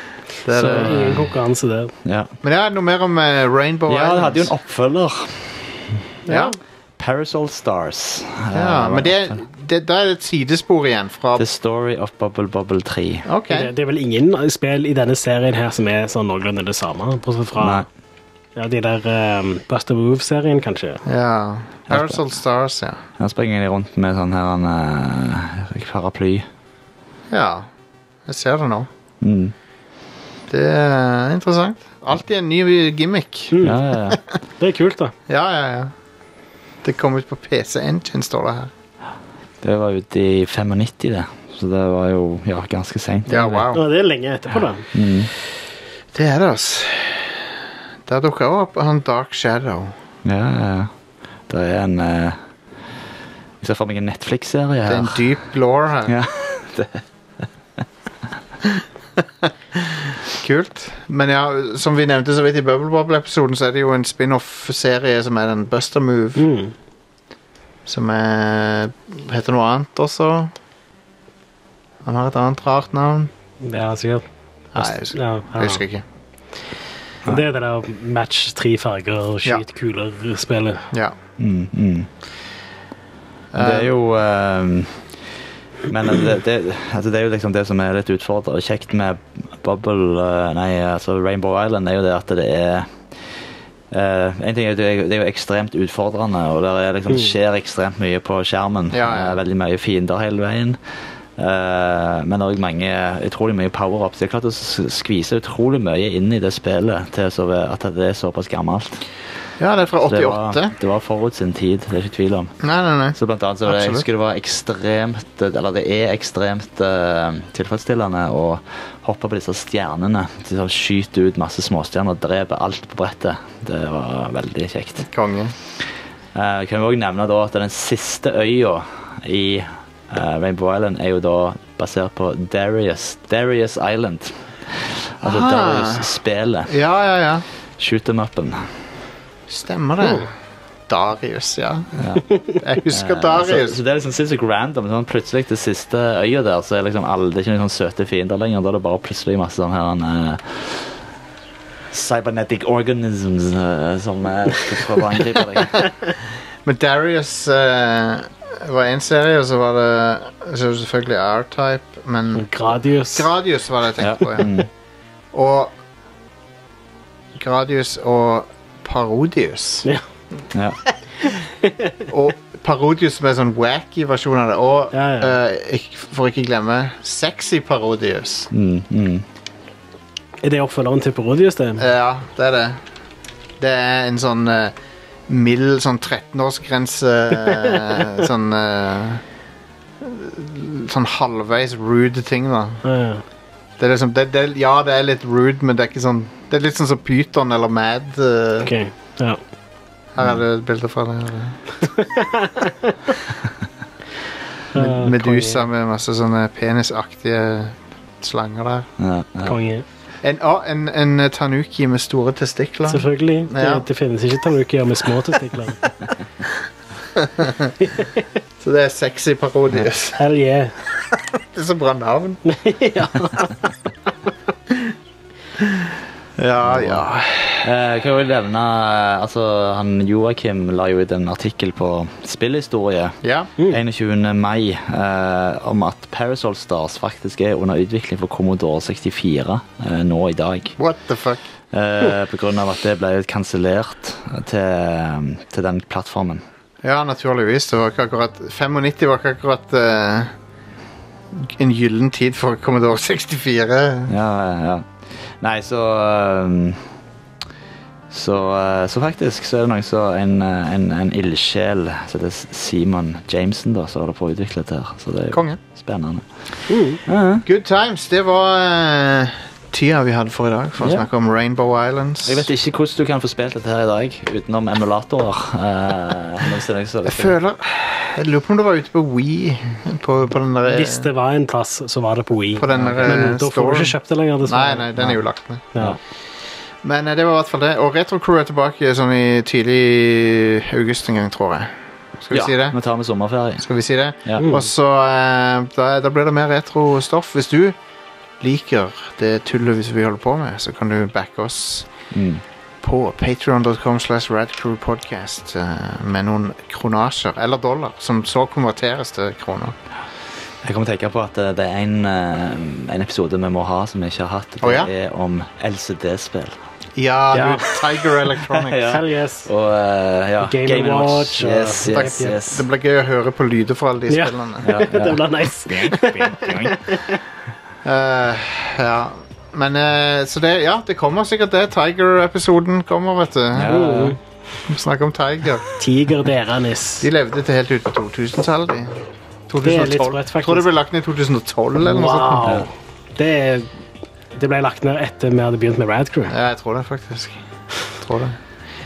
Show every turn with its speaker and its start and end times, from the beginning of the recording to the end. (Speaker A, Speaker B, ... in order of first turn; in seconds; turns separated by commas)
Speaker A: 0.4-1.3, Speaker B: 0.5-1.9, Speaker C: 2.0-2.3, Speaker A: 2.4-4.5, Speaker C: 3.9-5.9, Speaker B: 6.2-6.5, Speaker A: 6.3-6.5, Speaker C: 7.0-9.4, Speaker A: 8.5-11.4, Speaker C: 11.3-13.3, Speaker A: 13.2-13.7, Speaker B: 13.5-17.9, Speaker C: 17.6-17.9, Speaker B: 18.6-21.0, Speaker A: 21.1-23.0, Speaker C: 21.9-22.2, Speaker C: 23.2-26.4, Speaker A: 27.3-27.6, Speaker A: 28.2-28.9, Speaker C: 29.2-29.5, Speaker A: 30.5-33.6, Speaker B: 33.5-33.8, Speaker C: 33.6-34.2, Speaker B: 34.6-35.1, Speaker A: 35.3-35.9, Speaker A: 36.8-38.7, Speaker C: 39.6-43.7, Speaker A: 43.2-43.8, Speaker B: 43.7-44.8, Speaker C: 44.9-45.3, Speaker A: 46.1-47.4, Speaker A: 48.0-49.9, Speaker C: 50.2-50.9, Speaker C: 51.5-52.4, Speaker C: 53.6-55.2, Speaker A: 54.9-56.1, Speaker C: 56.0-57.0, Speaker A: 60.3-66.4, Speaker B: 66.4-66.7, Speaker A: 67.8-70.5, Speaker A: 72.0-73.3, Speaker B: 73.6-74.2, Speaker A: 74.7-76.0, Speaker B: 75.0-75.8, Speaker B: 77.3-80.9, Speaker C: 81.4-82.1, Speaker A: 83.5-83.9, Speaker C: 83.5-85.1, Speaker C: 85.8-93.0, Speaker C: 93.9-100.8, Speaker A: 98.9-99.4, Speaker C: 101.4-109.0, Speaker A: 109.6-110.7, Speaker C: 110.0-112.6, Speaker A: 112.6-114.0, Speaker C: 113.1-125.1, Speaker A: 125.0-125.5, Speaker C: 126.3-136.7, Speaker A: 135.2-136.1, Speaker A: 136.7-137.4, Speaker C: 137.8-138.6, Speaker A: 139.5-140.3, Speaker A: 140.9-141.9, Speaker C: 141.9-142.3, Speaker A: 142.6-143.8, Speaker C: 142.9-150.9, Speaker C: 151.9-155.8, Speaker A: 156.6-162.5, Speaker B: 162.3-163.3, Speaker A: 163.0-164.6, Speaker C: 164.0-164.7, Speaker A: 165.3-165.7, Speaker A: 167.4-169.9, Speaker C: 170.5-170.8, Speaker B: 171.6-172.0, Speaker A: 172.1-178.5, Speaker B: 174.9-175.4, Speaker C: 178.5-179.2, Speaker B: 180.4-181.9, Speaker A: 181.8-182.8, Speaker A: 183.6-184.7, Speaker A: 185.3-189.2, Speaker B: 187.4-188.1, Speaker A: 190.0-192.8, Speaker B: 192.8-193.2, Speaker A: 193.8-198.7, Speaker B: 198.6-199.4, Speaker A: 200.2-201.6, Speaker B: 201.9-202.9, Speaker B: 204.7-205.6, Speaker A: 204.8-208.9, Speaker C: 209.0-209.5, Speaker B: 209.4-209.8, Speaker A: 210.2-213.9, Speaker B: 212.9-215.9, Speaker A: 217.4-217.7, Speaker A: 218.6-220.2, Speaker B: 220.1-220.8, Speaker A: 221.5-222.4, Speaker B: 222.5-223.7, Speaker A: 226.4-227.7, Speaker C: 226.6-227.0, Speaker C: 227.6-240.8, Speaker A: 233.2-233.5, Speaker A: 240.8-241.4, Speaker C: 241.7-246.4, Speaker A: 246.8-250.3, Speaker A: 251.4-254.1, Speaker C: 254.1-256.8, Speaker C: 258.1-266.2, Speaker A: 265.3-265.6, Speaker B: 266.7-267.0, Speaker C: 267.0-267.4, Speaker A: 267.4-272.5, Speaker C: 270.8-271.1, Speaker C: 272.2-277.4, Speaker A: 277.0-281.1, Speaker B: 280.7-285.2, Speaker A: 282.6-285.6, Speaker C: 282.8-283.1, Speaker A: 286.8-291.7, Speaker A: 292.2-292.8, Speaker C: 292.3-293.7, Speaker A: 293.6-297.8, Speaker B: 294.4-294.7, Speaker A: 298.4-301.9, Speaker C: 302.1-302.4, Speaker A: 302.8-309.7, Speaker C: 310.6-316.6, Speaker A: 314.6-314.9, Speaker A: 316.9-318.9, Speaker B: 317.3-318.0, Speaker C: 318.6-322.6, Speaker B: 318.8-319.5, Speaker B: 320.4-322.5, Speaker A: 321.9-324.7, Speaker B: 324.1-327.1, Speaker C: 324.6-326.8, Speaker A: 327.8-333.7, Speaker C: 333.5-334.2, Speaker B: 333.7-334.2, Speaker A: 334.6-335.6, Speaker B: 335.8-337.1, Speaker A: 337.0-338.9, Speaker A: 339.5-342.5, Speaker B: 339.6-340.7, Speaker B: 341.8-343.7, Speaker B: 344.3-346.3, Speaker A: 346.3-347.4, Speaker A: 347.9-348.4